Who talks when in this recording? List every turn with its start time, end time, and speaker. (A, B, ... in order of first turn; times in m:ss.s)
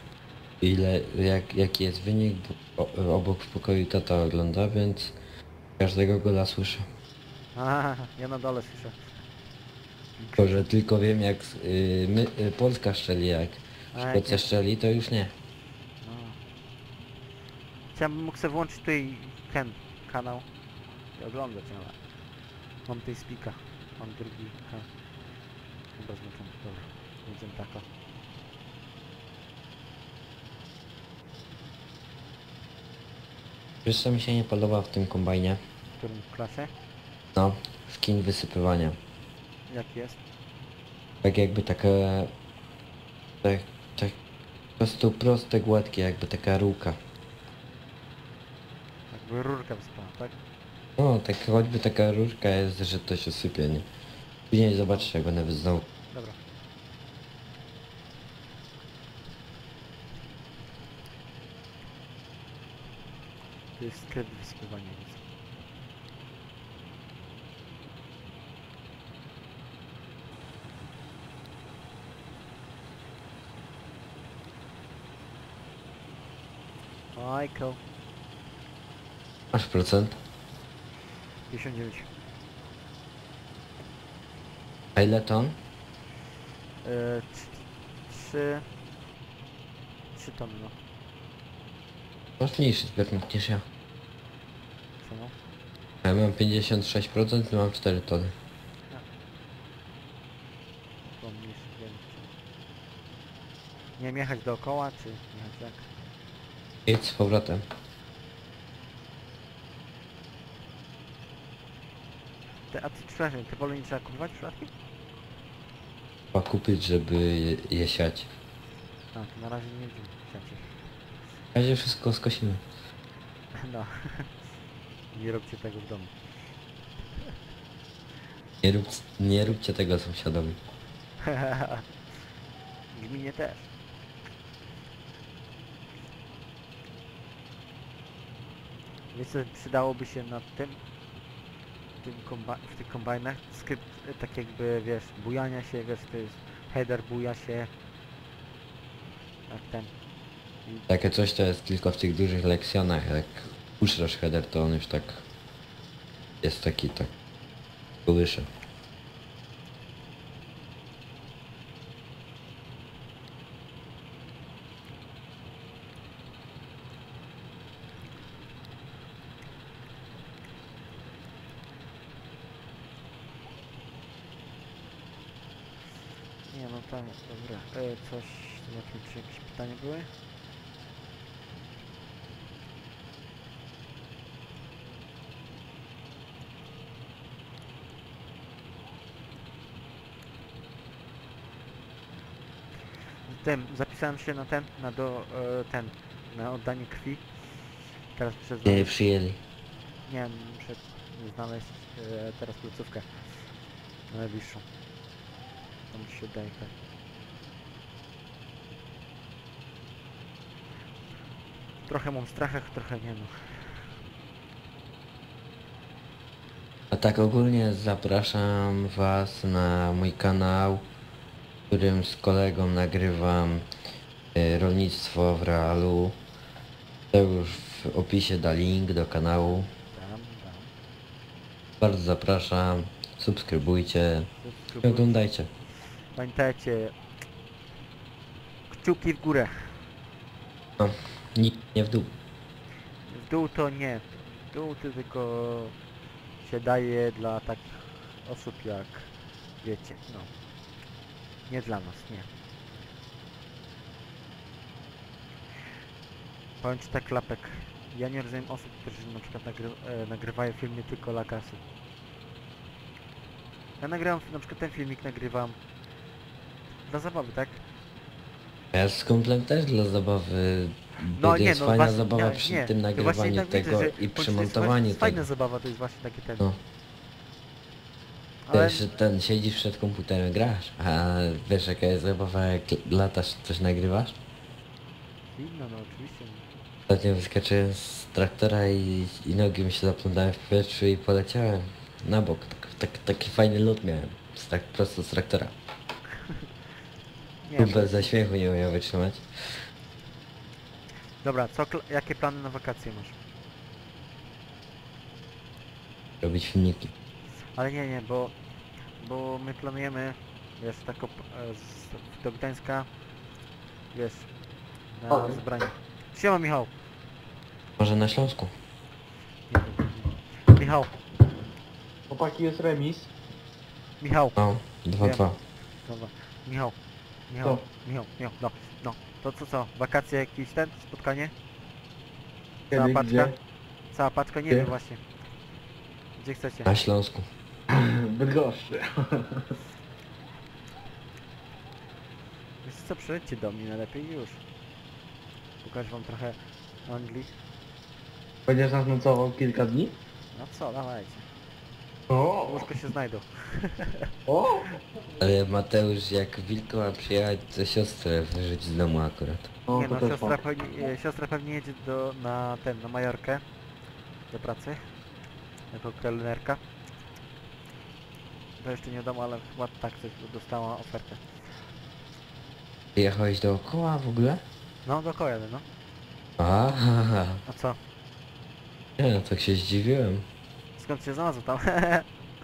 0:00.6-0:05.1 A
0:05.8-0:06.9 A
0:07.6-0:09.0 B
0:10.2-0:10.7 B
0:10.4-0:15.3 A
0:13.9-0:14.5 B
0:16.0-0:16.4 B
0:17.9-0:20.4 B
0:21.2-0:22.0 B
0:22.9-0:24.9 B
0:26.0-0:27.8 B
0:33.8-0:35.6 A
0:36.0-0:36.7 B
0:37.3-0:39.0 A
0:39.7-0:40.2 B
0:41.2-0:42.3 A
0:43.4-0:44.2 A
0:44.8-0:47.0 A
0:49.1-0:50.3 B
0:51.0-0:53.9 A
0:54.5-0:55.8 A
1:03.8-1:05.2 B
1:17.2-1:17.8 B
1:19.5-1:20.2 A
1:21.5-1:22.1 B
1:25.0-1:25.6 A
1:26.8-1:28.7 B
1:30.2-1:30.8 B
1:32.4-1:33.6 A
1:35.0-1:35.3 B
1:36.0-1:38.4 A
1:41.2-1:42.3 B
1:44.0-1:45.8 B
1:46.9-1:47.6 A
1:52.7-1:54.7 B
1:56.3-1:58.3 A
1:59.1-2:00.6 B
2:01.6-2:02.6 A
2:03.6-2:04.3 B
2:05.1-2:06.1 B
2:08.6-2:10.6 A
2:11.2-2:11.9 B
2:12.9-2:13.7 B
2:19.1-2:20.8 B
2:22.0-2:27.7 B
2:29.5-2:29.9 B
2:30.9-2:35.2 A
2:36.4-2:37.1 A
2:38.0-2:38.5 A
2:56.5-3:00.1 B
3:13.3-3:17.6 B
3:18.1-3:19.0 B
3:18.6-3:19.4 A
3:20.1-3:23.5 B
3:24.1-3:24.6 B
3:25.9-3:26.7 B
3:31.9-3:33.9 B
3:36.9-3:40.8 A
3:41.7-3:43.6 A
3:44.4-3:46.2 A
3:47.1-3:49.7 A
3:49.8-3:50.7 B
3:51.8-3:54.3 A
3:54.4-3:55.2 B
3:54.8-3:55.5 A
3:56.1-3:57.0 B
3:58.7-3:59.8 B
4:00.8-4:02.1 A
4:03.1-4:05.8 B
4:06.4-4:09.1 B
4:09.6-4:10.3 B
4:11.5-4:12.3 B
4:16.6-4:21.6 B
4:23.8-4:25.6 B
4:26.9-4:27.6 B
4:28.7-4:35.2 A
4:31.1-4:36.5 B
4:38.4-4:38.8 B
4:38.5-4:44.2 A
4:45.4-4:46.5 B
4:46.9-4:55.5 A
4:57.4-4:58.1 B
4:57.6-4:59.6 A
5:01.2-5:03.2 B
5:06.2-5:06.9 A
5:07.6-5:08.3 B
5:09.0-5:12.9 B
5:13.9-5:14.3 B
5:14.9-5:16.7 B
5:15.1-5:15.4 C
5:17.8-5:18.5 A
5:19.5-5:20.9 B
5:22.1-5:23.1 C
5:24.0-5:24.4 B
5:24.4-5:25.4 A
5:25.0-5:25.3 B
5:25.9-5:26.8 B
5:27.3-5:31.3 B
5:32.7-5:33.3 B
5:32.7-5:33.3 C
5:33.9-5:35.0 B
5:36.2-5:36.7 B
5:36.6-5:37.3 A
5:37.7-5:39.5 C
5:42.6-5:44.4 B
5:45.6-5:47.3 B
5:48.5-5:49.9 C
5:50.4-5:51.3 B
5:52.1-5:52.8 C
5:52.4-5:54.1 B
5:54.3-5:54.8 C
5:55.2-5:59.5 A
5:59.7-6:00.4 C
5:59.7-6:03.4 B
6:04.3-6:04.8 B
6:05.7-6:06.6 B
6:08.6-6:11.2 B
6:13.0-6:14.4 A
6:14.8-6:15.6 B
6:16.4-6:17.4 A
6:17.5-6:17.8 B
6:19.0-6:20.3 A
6:20.8-6:22.1 B